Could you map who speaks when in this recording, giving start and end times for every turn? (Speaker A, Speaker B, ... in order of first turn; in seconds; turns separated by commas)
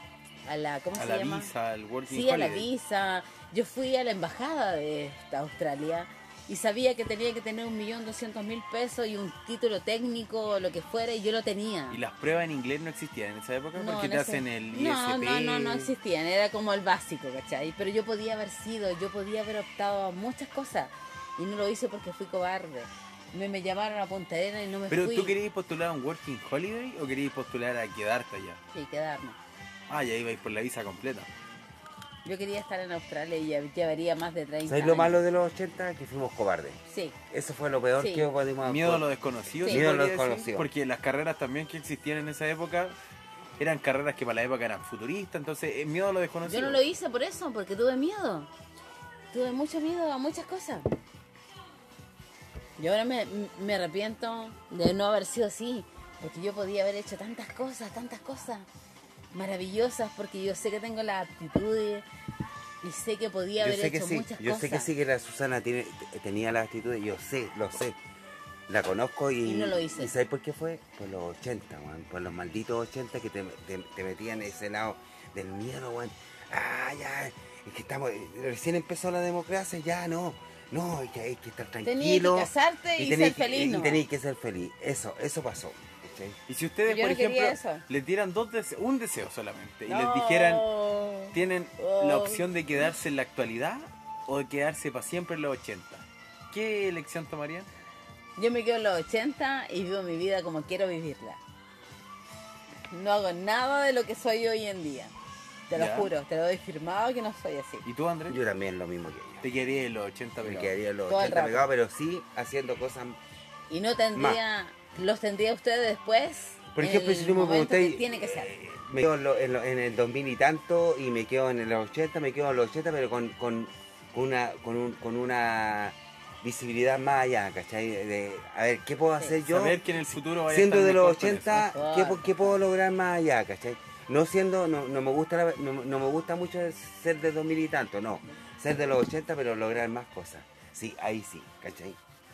Speaker A: 0.5-1.5, Speaker B: 1.0-2.7, Speaker A: 2.1-12.0, Speaker B: 11.9-15.9, Speaker A: 13.8-25.4, Speaker B: 24.9-28.6, Speaker A: 28.7-29.4, Speaker B: 29.9-31.3, Speaker A: 32.2-35.2, Speaker C: 34.6-39.0, Speaker A: 36.9-37.1, Speaker A: 38.0-38.3, Speaker B: 38.6-42.9, Speaker C: 39.7-40.7, Speaker B: 43.6-46.8, Speaker A: 46.4-48.5, Speaker A: 49.3-50.9, Speaker A: 52.8-58.7, Speaker A: 59.3-62.0, Speaker A: 62.8-64.9, Speaker C: 63.6-68.0, Speaker C: 68.7-86.3, Speaker A: 69.4-70.1, Speaker A: 81.8-84.0, Speaker B: 86.5-90.7, Speaker A: 86.8-87.8, Speaker A: 89.8-92.5, Speaker B: 91.3-97.7, Speaker A: 98.4-101.4, Speaker A: 102.9-105.1, Speaker A: 105.7-107.8, Speaker B: 105.7-106.1, Speaker B: 107.8-108.4, Speaker C: 108.3-109.5, Speaker B: 109.4-110.7, Speaker C: 110.4-113.2, Speaker A: 111.1-111.7, Speaker A: 113.7-118.5, Speaker C: 114.1-114.4, Speaker C: 116.7-129.8, Speaker B: 129.5-131.7, Speaker C: 130.5-142.0, Speaker A: 131.5-132.6